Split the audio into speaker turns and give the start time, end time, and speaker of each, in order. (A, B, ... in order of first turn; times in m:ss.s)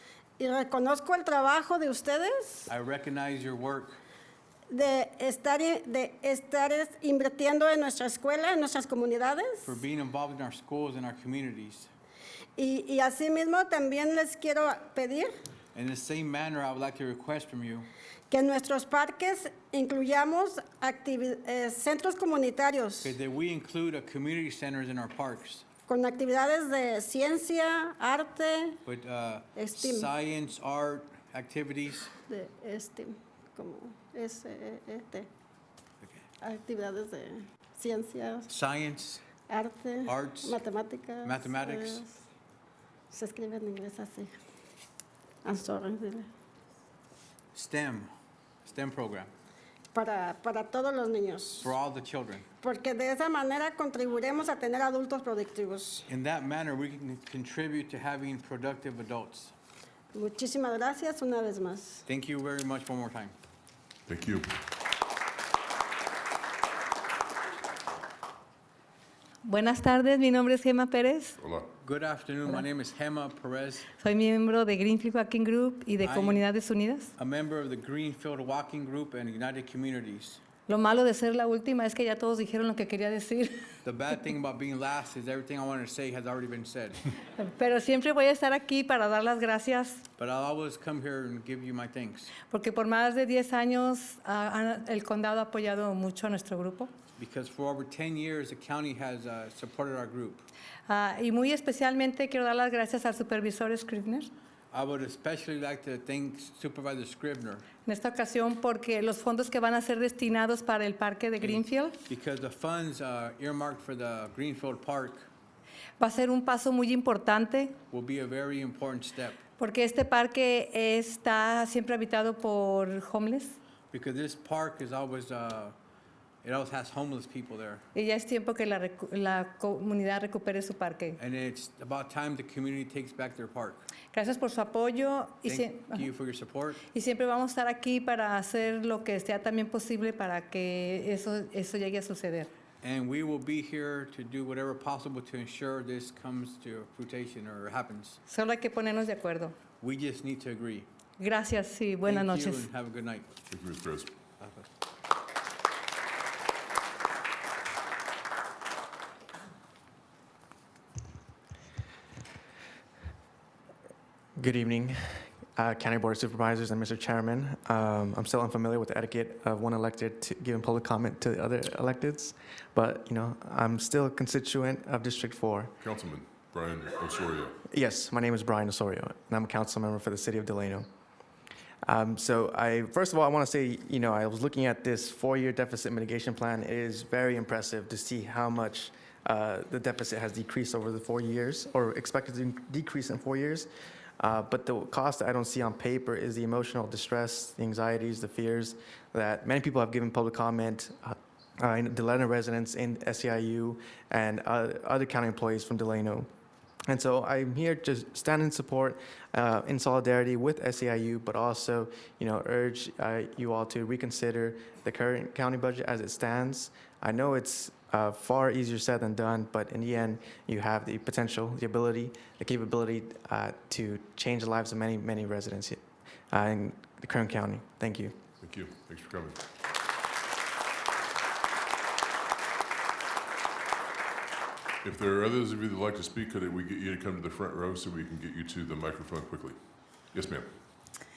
0:00.4-0:02.7 A
0:02.7-0:04.0 B
0:04.7-0:09.8 A
0:09.6-0:11.9 B
0:12.6-0:15.3 A
0:15.7-0:17.9 B
0:18.3-0:23.2 A
0:23.0-0:25.6 B
0:25.9-0:28.8 A
0:28.8-0:32.1 B
0:29.6-0:30.1 A
0:32.2-0:35.3 A
0:36.4-0:38.5 A
0:38.5-0:39.2 B
0:39.5-0:42.2 A
0:40.0-0:40.6 B
0:41.2-0:42.0 B
0:43.1-0:44.3 A
0:45.4-0:46.3 A
0:47.5-0:48.1 B
0:48.6-0:49.3 B
0:49.9-0:51.7 A
0:51.6-0:52.5 B
0:52.6-0:56.0 A
0:56.1-0:59.5 B
1:00.1-1:02.0 A
1:02.0-1:03.3 B
1:04.1-1:04.5 C
1:09.4-1:11.4 D
1:11.4-1:11.7 C
1:11.8-1:13.9 B
1:14.0-1:17.1 D
1:16.0-1:16.4 B
1:17.2-1:20.4 B
1:20.7-1:23.7 D
1:23.8-1:27.0 B
1:27.4-1:30.0 D
1:30.2-1:32.3 B
1:32.5-1:36.9 D
1:37.2-1:40.5 B
1:40.9-1:44.3 D
1:44.7-1:47.7 B
1:47.8-1:52.0 D
1:51.4-1:55.3 B
1:56.0-1:57.8 D
1:57.9-1:59.4 B
1:59.6-2:03.6 D
2:03.9-2:05.7 B
2:06.4-2:07.8 B
2:07.9-2:11.2 D
2:11.2-2:13.9 B
2:14.1-2:16.1 D
2:15.4-2:16.8 B
2:16.9-2:22.5 D
2:22.8-2:28.2 B
2:28.3-2:29.6 D
2:29.8-2:30.9 B
2:31.2-2:32.6 D
2:32.0-2:33.3 B
2:33.5-2:34.1 C
2:34.4-2:34.6 B
2:44.4-2:55.8 E
2:55.8-2:57.6 C
2:57.7-3:00.9 E
3:01.9-3:13.7 E
3:14.2-3:26.3 E
3:26.9-3:48.2 E
3:48.4-3:49.4 C
3:54.8-3:59.6 C
4:00.1-4:00.5 C